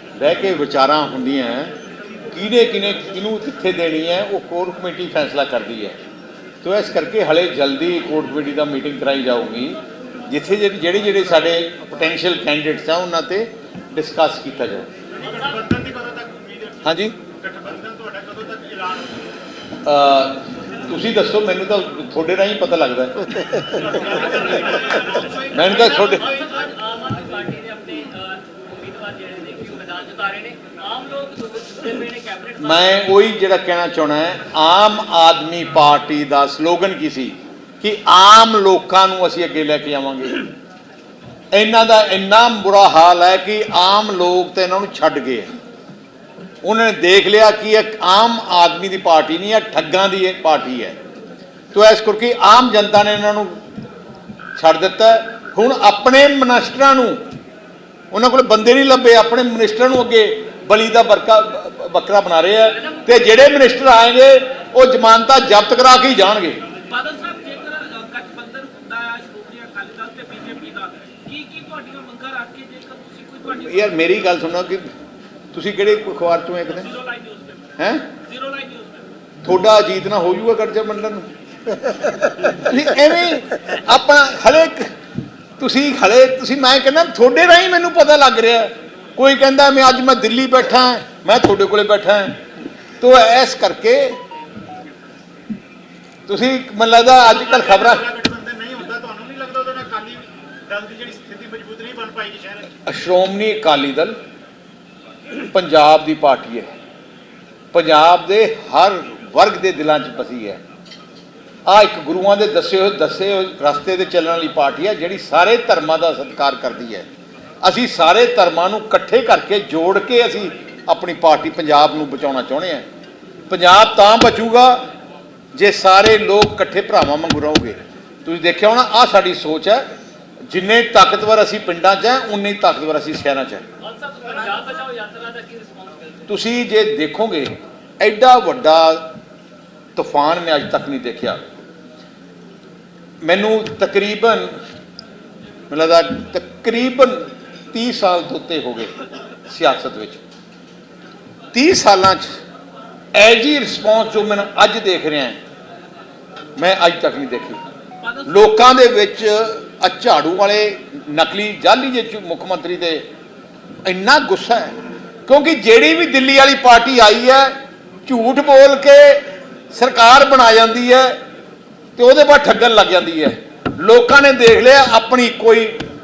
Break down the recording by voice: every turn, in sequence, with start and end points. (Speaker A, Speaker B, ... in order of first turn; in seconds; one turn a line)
Speaker A: 0.2-1.8
Speaker A: 2.3-6.0
Speaker A: 6.6-14.9
Speaker B: 15.3-16.8
Speaker A: 16.8-17.2
Speaker B: 17.4-19.1
Speaker A: 19.8-24.8
Speaker A: 25.3-26.2
Speaker C: 25.8-32.8
Speaker A: 32.6-40.5
Speaker A: 41.5-45.5
Speaker A: 46.6-51.0
Speaker A: 51.7-53.5
Speaker A: 54.6-57.2
Speaker A: 58.1-66.6
Speaker C: 66.9-73.5
Speaker A: 73.4-74.8
Speaker A: 75.5-77.0
Speaker C: 77.0-77.5
Speaker A: 77.8-78.1
Speaker C: 78.3-79.0
Speaker A: 79.4-84.9
Speaker A: 85.6-92.4
Speaker A: 93.0-94.2
Speaker A: 96.3-98.1
Speaker B: 98.1-102.6
Speaker A: 102.8-104.2
Speaker A: 105.5-106.7
Speaker A: 107.7-110.6
Speaker A: 111.7-117.0
Speaker A: 117.6-122.8
Speaker A: 123.5-124.8
Speaker A: 125.5-129.8
Speaker A: 130.5-133.6
Speaker C: 133.8-136.2
Speaker A: 136.3-139.1
Speaker A: 139.9-141.4
Speaker A: 143.2-144.5
Speaker A: 145.7-148.9
Speaker A: 149.5-150.2
Speaker A: 151.5-152.3
Speaker A: 153.1-155.4
Speaker A: 156.6-157.6
Speaker A: 158.2-163.0
Speaker A: 163.8-164.7
Speaker A: 165.2-167.5
Speaker A: 168.1-171.2
Speaker A: 172.0-175.8